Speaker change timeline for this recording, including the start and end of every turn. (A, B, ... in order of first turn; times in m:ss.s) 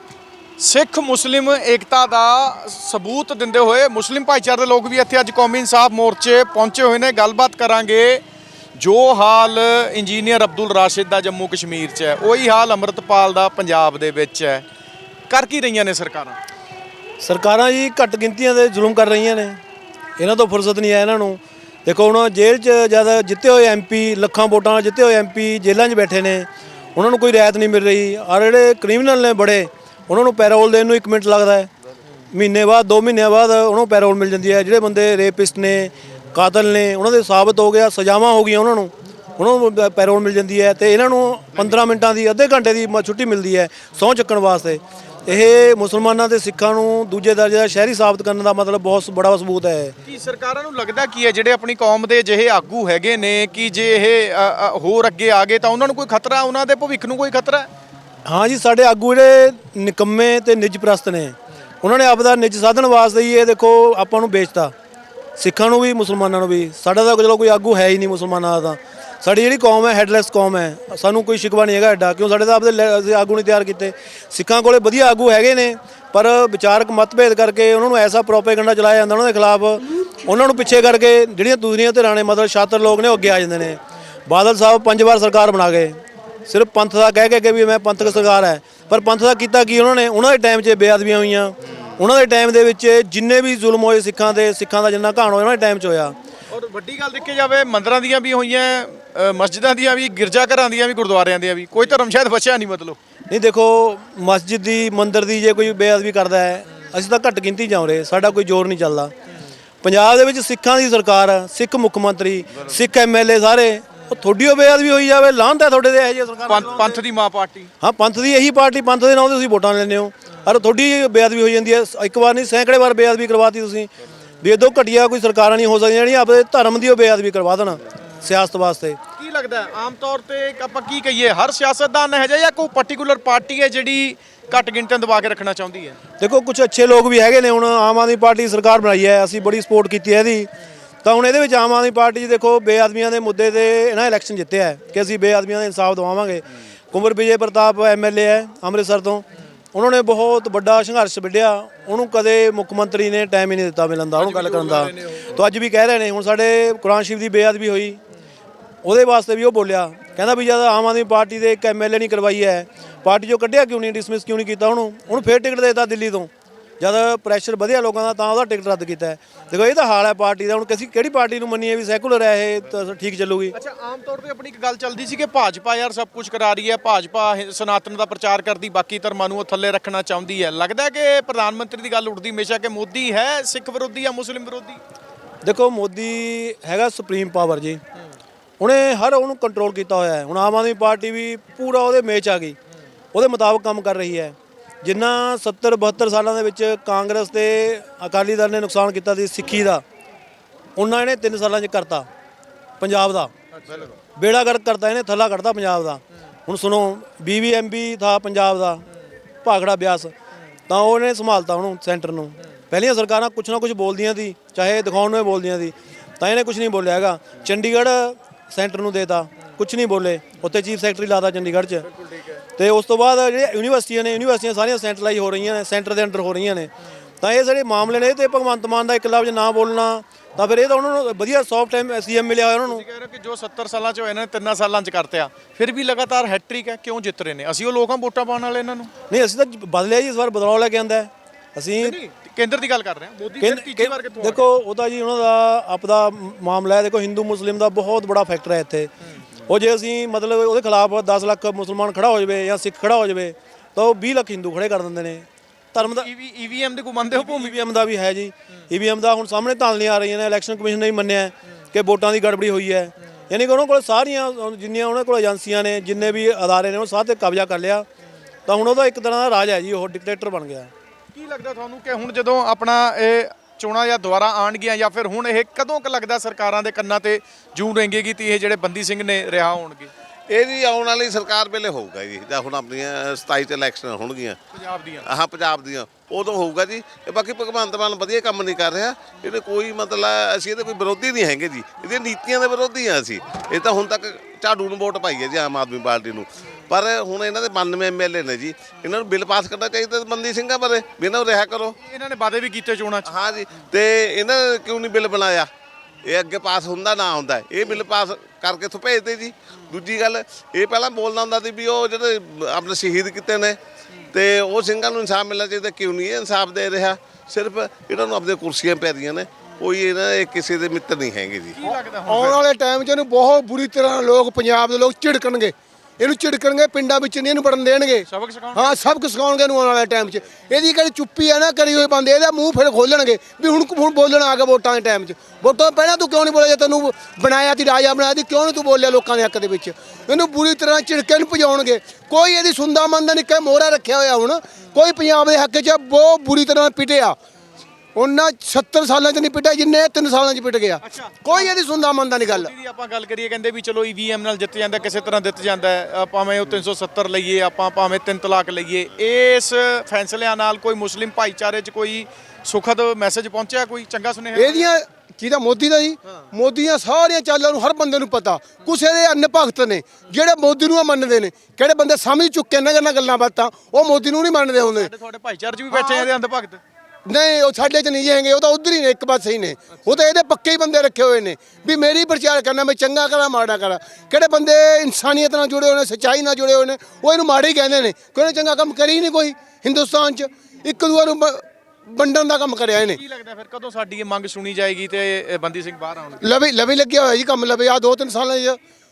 0:00.6-0:08.2 A
0:08.8-0:14.6 A
0:15.3-0:16.4 A
0:17.2-0:19.6 B
0:20.2-0:31.7 B
0:32.3-0:50.0 B
0:50.0-0:57.7 A
0:58.2-1:04.7 B
1:05.4-1:36.1 B
1:36.5-1:43.0 A
1:43.3-1:49.1 B
1:49.8-1:57.0 B
1:56.5-1:57.7 A
1:57.8-2:03.9 B
2:04.4-2:09.0 B
2:09.2-2:16.0 A
2:16.2-2:20.5 B
2:21.0-2:38.0 B
2:34.2-2:35.3 A
2:38.8-2:53.6 B
2:53.5-3:04.8 A
3:05.4-3:07.8 B
3:08.6-3:12.6 B
3:13.1-3:19.8 B
3:20.8-3:22.1 B
3:22.8-3:23.3 B
3:23.6-3:23.9 A
3:24.2-3:28.8 B
3:29.4-3:30.1 B
3:30.7-3:41.8 B
3:42.6-3:52.8 B
3:52.7-3:58.9 A
3:59.1-4:02.0 B
4:01.8-4:04.5 A
4:03.4-4:08.9 B
4:09.5-4:16.1 B
4:15.8-4:17.6 A
4:17.1-4:27.9 B
4:28.5-4:30.7 B
4:31.1-4:39.9 A
4:40.3-4:44.4 C
4:44.5-4:45.0 A
4:45.0-5:01.8 C
5:01.8-5:03.1 A
5:03.0-5:05.5 C
5:06.0-5:13.6 C
5:14.1-5:21.6 C
5:21.6-5:22.4 A
5:21.6-5:47.2 D
5:28.1-5:28.8 A
5:47.9-5:52.5 D
5:50.8-5:51.5 A
5:52.2-6:04.7 A
6:04.3-6:14.9 D
6:14.7-6:16.6 A
6:15.7-6:16.1 D
6:17.0-6:33.0 D
6:33.0-6:36.2 A
6:36.2-6:38.6 D